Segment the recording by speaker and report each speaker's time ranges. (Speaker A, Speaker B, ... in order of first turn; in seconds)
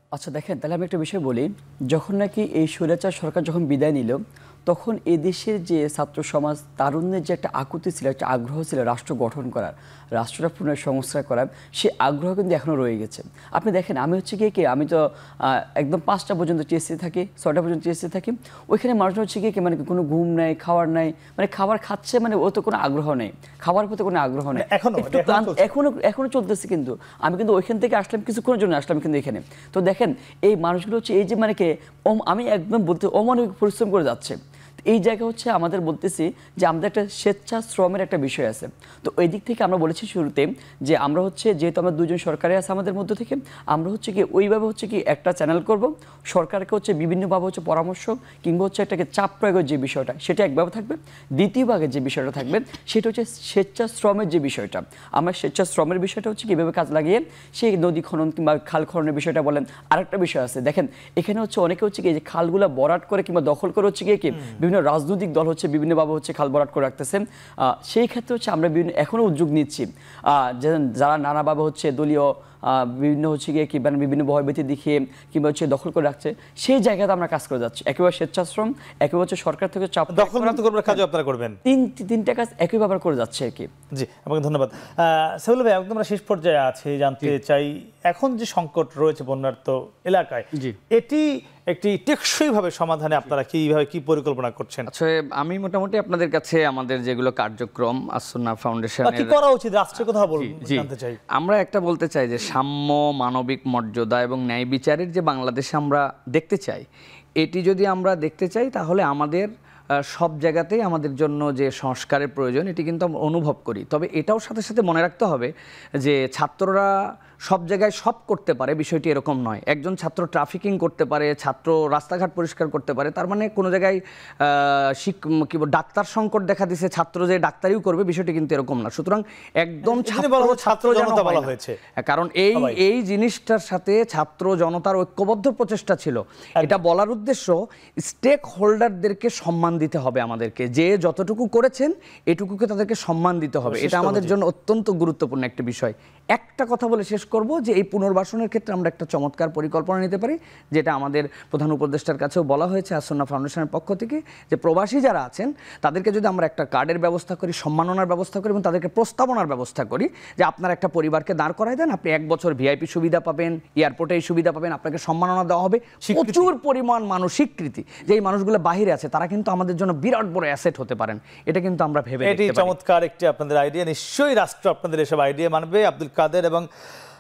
Speaker A: 0.1-81.0, 81.7-83.7
Speaker B: 24.6-25.6, 80.1-81.6, 83.9-94.9, 99.0-101.2, 129.8-131.8, 143.7-144.3, 166.1-166.5, 172.2-176.7
Speaker C: 94.9-99.4, 100.3-106.9, 107.4-116.9, 117.5-172.7